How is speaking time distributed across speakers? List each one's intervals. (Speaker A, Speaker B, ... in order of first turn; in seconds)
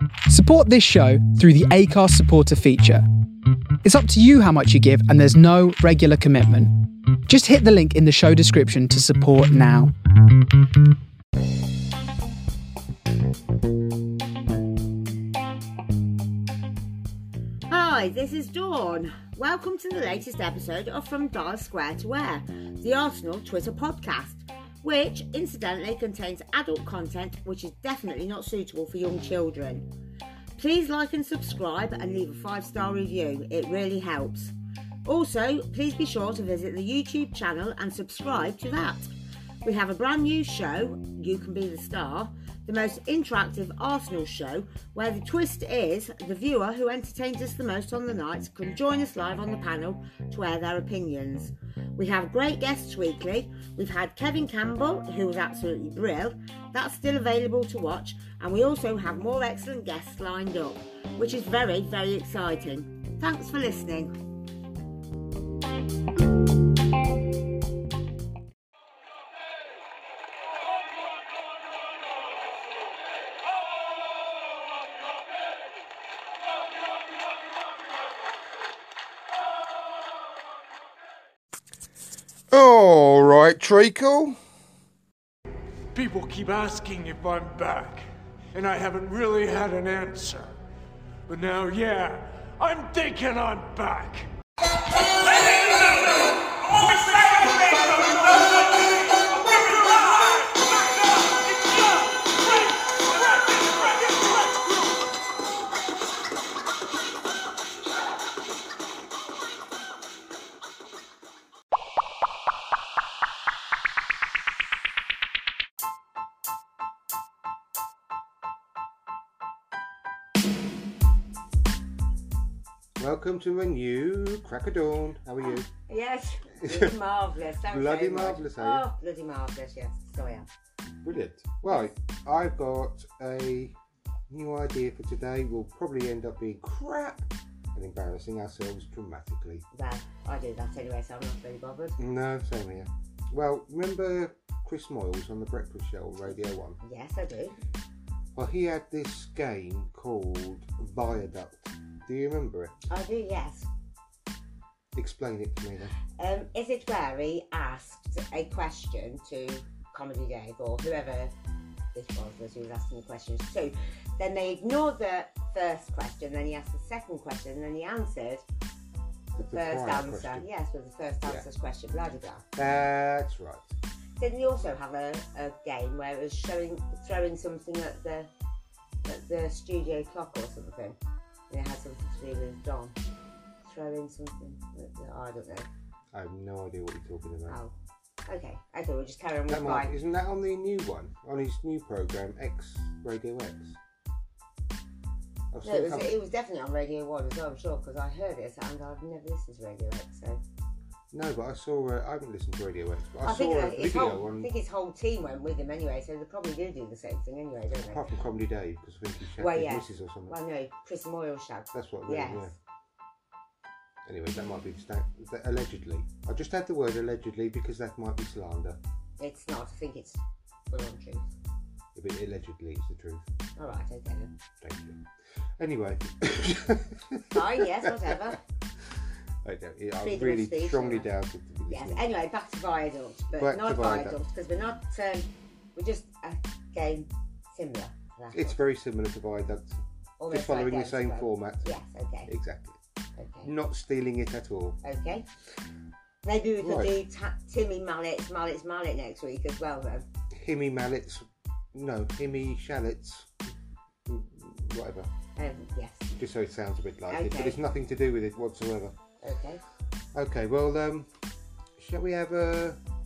Speaker A: 0.3-3.0, 3.8-9.9
Speaker B: 17.7-29.9, 30.6-34.5, 35.0-39.1, 39.6-64.2, 125.8-130.5, 131.7-131.9, 139.7-142.0, 146.8-147.6, 152.9-153.7, 156.2-161.3, 161.9-168.4, 169.4-172.4, 174.2-178.3, 179.0-181.0, 181.5-183.0, 183.6-185.7, 187.5-187.7, 188.3-189.9, 195.6-200.4, 203.2-208.1, 209.4-212.6, 219.2-221.3, 223.6-224.3, 227.3-228.4, 230.0-231.1, 231.7-238.6, 240.2-242.3, 243.2-243.5, 244.8-245.3, 246.2-250.1, 255.4-256.1, 257.1-257.6, 259.2-259.6
Speaker C: 82.5-84.4, 123.0-125.7, 126.6-127.0, 127.6-128.8, 131.0-133.8, 134.3-139.7, 142.0-146.8, 148.3-152.8, 154.9-155.9, 169.3-170.5, 172.6-173.7, 186.1-187.6, 189.5-193.8, 195.5-196.1, 201.1-204.5, 207.8-210.4, 211.7-212.6, 214.1-218.8, 221.9-223.2, 224.6-225.0, 225.6-228.4, 229.4-232.1, 233.3-234.2, 238.3-241.7, 242.3-242.8, 243.4-244.8, 246.6-246.9, 250.3-253.3, 254.1-255.1, 256.2-259.0, 260.1-261.1, 261.8-262.8
Speaker D: 85.9-90.6, 91.3-94.3, 95.0-104.9